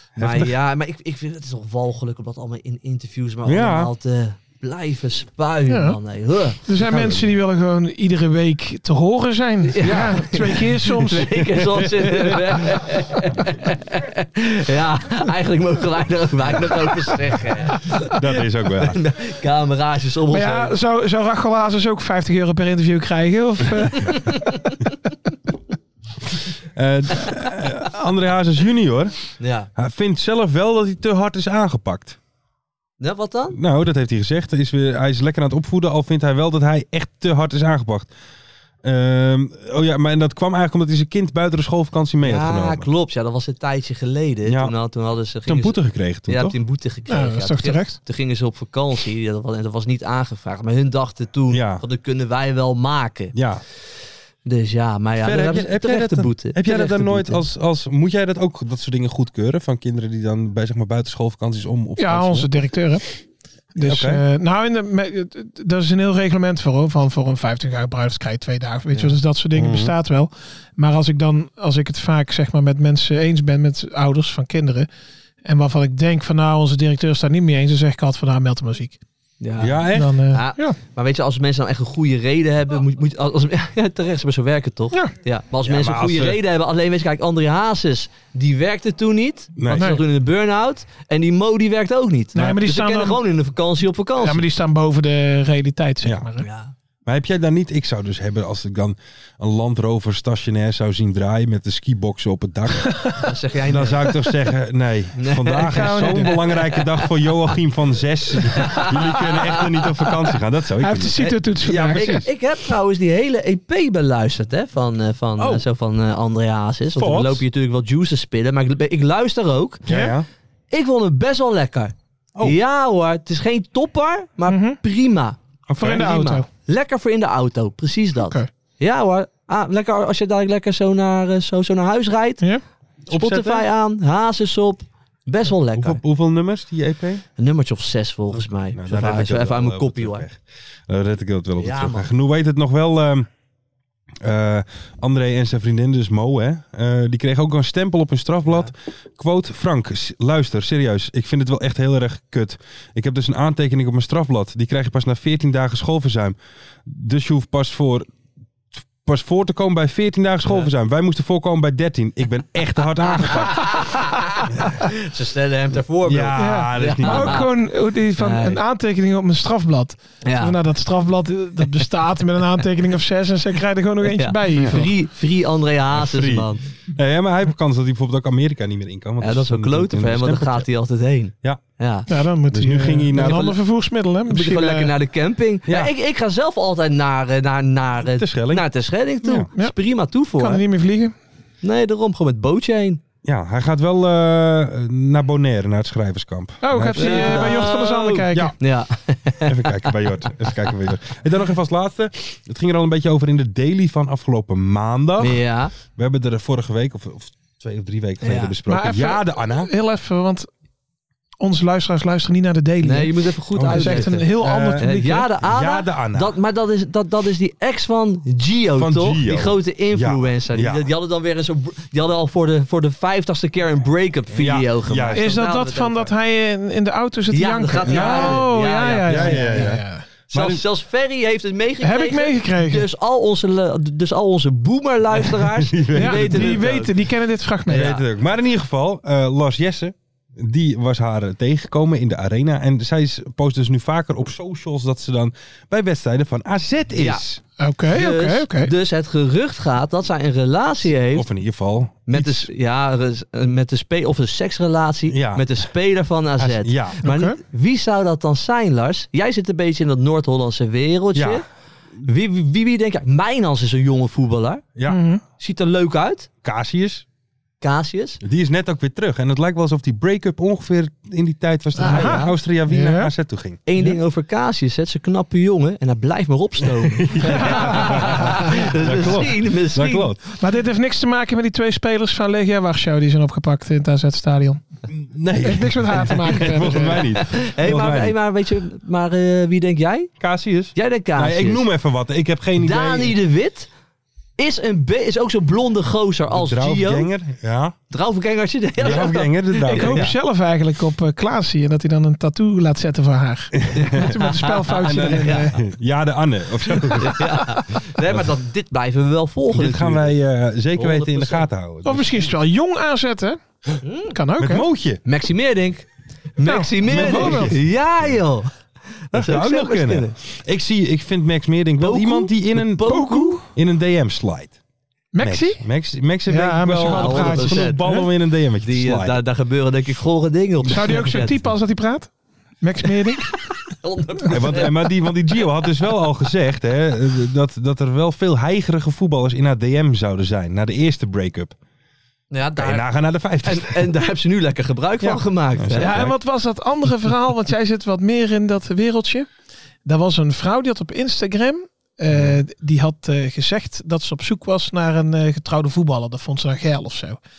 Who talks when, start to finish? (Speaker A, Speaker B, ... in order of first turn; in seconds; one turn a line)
Speaker A: 0.2-0.5
Speaker B: 0.2-6.6
Speaker A: 3.4-3.9
Speaker C: 5.7-6.0
Speaker C: 6.6-11.5
Speaker A: 6.7-7.4
Speaker B: 9.6-18.1
Speaker A: 18.0-19.0
Speaker B: 18.7-20.7
Speaker C: 20.3-24.4
Speaker A: 26.7-32.2
Speaker B: 29.4-29.7
Speaker B: 33.0-33.6
Speaker A: 33.5-38.1
Speaker A: 38.8-42.9
Speaker B: 42.2-53.3
Speaker A: 44.4-44.7
Speaker A: 45.5-46.6
Speaker C: 47.1-48.0
Speaker A: 51.5-51.8
Speaker A: 53.3-53.6
Speaker B: 54.4-57.4
Speaker A: 55.2-62.5
Speaker C: 62.0-63.0
Speaker C: 63.7-74.9
Speaker A: 63.8-64.2
Speaker A: 68.9-69.9
Speaker C: 75.4-79.0
Speaker B: 79.4-94.4
Speaker A: 79.6-80.2
Speaker C: 79.9-80.8
Speaker A: 85.6-86.4
Speaker A: 89.5-90.0
Speaker C: 89.8-90.0
Speaker C: 92.3-93.2
Speaker C: 94.2-96.5
Speaker B: 96.4-96.7
Speaker A: 97.0-112.2
Speaker C: 102.8-103.3
Speaker B: 103.2-104.1
Speaker B: 105.1-107.5
Speaker C: 105.7-106.5
Speaker B: 108.5-110.3
Speaker C: 110.8-112.2
Speaker B: 111.2-119.8
Speaker A: 115.4-115.6
Speaker A: 117.0-117.4
Speaker A: 119.8-120.3
Speaker C: 119.9-120.2
Speaker B: 120.7-125.4
Speaker C: 124.5-124.8
Speaker A: 125.7-126.1
Speaker C: 125.8-126.5
Speaker B: 125.9-132.4
Speaker C: 128.2-128.5
Speaker A: 133.1-133.7
Speaker B: 133.1-136.0
Speaker A: 135.7-137.2
Speaker B: 137.4-140.2
Speaker A: 138.7-143.3
Speaker B: 141.6-142.1
Speaker A: 144.2-158.1
Speaker B: 148.4-148.7
Speaker A: 159.0-163.8
Speaker B: 163.3-167.5
Speaker A: 166.0-167.5
Speaker C: 166.3-174.9
Speaker B: 168.2-168.6
Speaker B: 170.2-170.6
Speaker B: 174.0-176.6
Speaker A: 175.9-180.7
Speaker B: 179.2-182.1
Speaker C: 182.1-185.0
Speaker A: 182.5-183.5
Speaker B: 183.2-183.6
Speaker B: 184.3-190.6
Speaker A: 185.7-185.9
Speaker A: 188.0-188.7
Speaker A: 189.2-189.5
Speaker C: 189.3-189.8
Speaker C: 190.4-191.1
Speaker B: 191.6-193.0
Speaker A: 193.2-197.6
Speaker C: 196.6-198.6
Speaker B: 196.9-200.8
Speaker A: 198.3-198.6
Speaker A: 199.4-209.7
Speaker B: 205.2-205.7
Speaker B: 208.2-208.6
Speaker C: 208.7-210.5
Speaker C: 211.4-215.3
Speaker B: 212.8-226.1
Speaker A: 213.5-216.4
Speaker A: 218.8-220.8
Speaker A: 224.3-225.3
Speaker C: 225.1-230.1
Speaker B: 227.3-229.7
Speaker A: 227.9-228.4
Speaker A: 229.1-230.6
Speaker B: 230.3-237.0
Speaker C: 231.8-232.9
Speaker A: 235.2-236.7
Speaker C: 235.9-237.9
Speaker B: 237.7-238.0
Speaker A: 237.7-247.4
Speaker B: 246.9-247.2
Speaker C: 247.6-248.7
Speaker B: 247.9-251.2
Speaker A: 251.1-252.5
Speaker B: 252.1-261.4
Speaker A: 255.1-255.5
Speaker A: 256.4-257.0
Speaker C: 257.0-257.4
Speaker A: 261.1-261.4
Speaker B: 262.0-264.6
Speaker A: 264.8-265.0
Speaker C: 264.9-265.2
Speaker B: 265.4-266.3
Speaker A: 266.4-267.1
Speaker B: 267.6-268.2
Speaker A: 268.2-273.6
Speaker B: 271.8-272.3
Speaker C: 271.8-273.1
Speaker B: 273.6-280.1
Speaker A: 276.8-280.2
Speaker C: 277.2-278.6
Speaker C: 280.4-284.6
Speaker A: 284.9-288.2
Speaker C: 285.4-287.1
Speaker B: 287.2-290.1
Speaker A: 290.2-293.1
Speaker B: 290.7-291.6
Speaker B: 292.6-293.7
Speaker B: 294.4-297.1
Speaker A: 296.3-297.8
Speaker B: 297.9-300.1
Speaker A: 298.8-300.2
Speaker C: 299.6-305.6
Speaker A: 303.7-304.0
Speaker B: 303.8-305.5
Speaker A: 304.8-307.4
Speaker B: 306.9-310.1
Speaker A: 308.0-308.3
Speaker A: 309.5-312.3
Speaker B: 310.7-311.5
Speaker C: 311.8-313.4
Speaker B: 313.8-314.2
Speaker C: 314.1-314.6
Speaker A: 314.4-315.0
Speaker B: 315.1-315.8
Speaker B: 316.4-318.5
Speaker C: 316.4-317.6
Speaker A: 316.8-318.1
Speaker B: 319.1-320.1
Speaker A: 319.1-324.6
Speaker B: 321.8-323.4
Speaker C: 322.8-323.5
Speaker C: 325.1-325.6
Speaker A: 325.2-329.2
Speaker C: 326.3-328.1
Speaker B: 326.9-327.8
Speaker B: 328.6-331.4
Speaker C: 330.6-333.3
Speaker B: 333.1-334.8
Speaker A: 334.3-341.6
Speaker B: 342.3-342.9
Speaker A: 342.5-344.0
Speaker B: 343.4-345.9
Speaker A: 345.0-346.2
Speaker C: 345.8-349.3
Speaker C: 349.8-357.2
Speaker A: 352.1-352.4